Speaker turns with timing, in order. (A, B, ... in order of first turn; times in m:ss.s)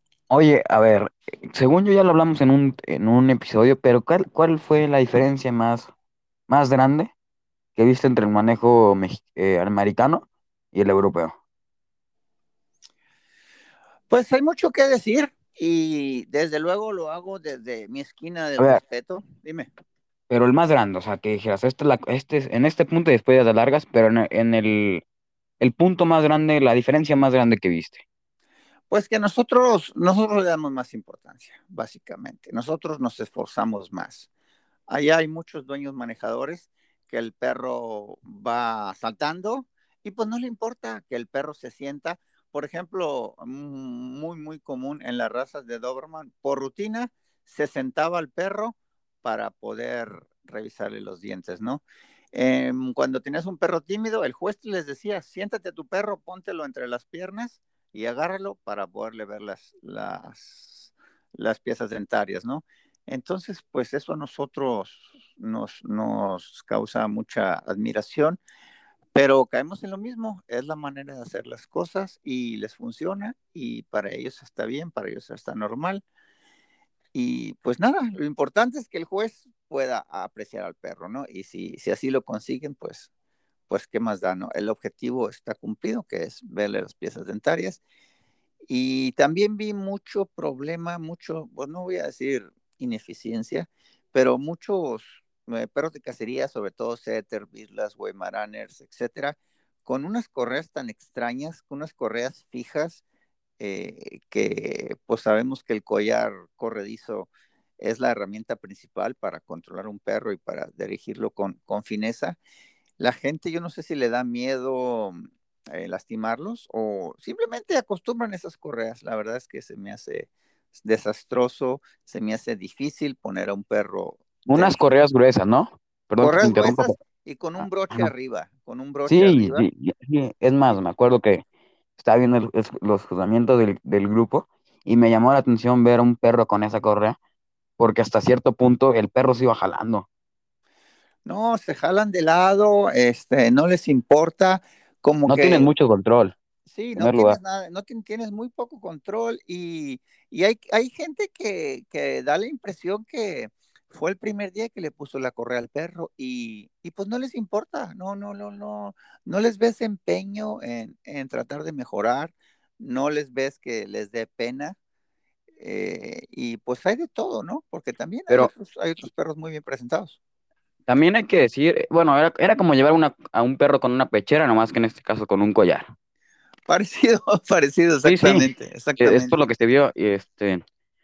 0:00.3-0:05.9 A
0:06.5-0:07.1 A
0:07.8-0:11.4 A
0:14.1-0:19.7 B
0:20.3-0:25.0 A
0:25.6-0:28.0 A
0:28.9-0:34.3 B
0:34.9-1:08.4 B
1:09.1-1:16.0 B
1:17.1-1:23.1 B
1:23.7-1:27.8 B
1:28.7-1:43.0 B
1:43.6-1:52.4 B
1:53.0-2:04.8 B
2:04.5-2:06.9 A
2:06.2-2:09.7 B
2:07.6-2:08.1 A
2:09.1-2:11.4 A
2:12.0-2:17.2 A
2:17.8-2:20.0 A
2:21.2-2:25.7 B
2:25.3-2:26.3 A
2:26.7-2:44.8 B
2:26.9-2:27.4 A
2:45.6-2:50.2 B
2:50.9-2:55.9 A
2:56.7-2:59.3 B
2:58.0-3:00.6 A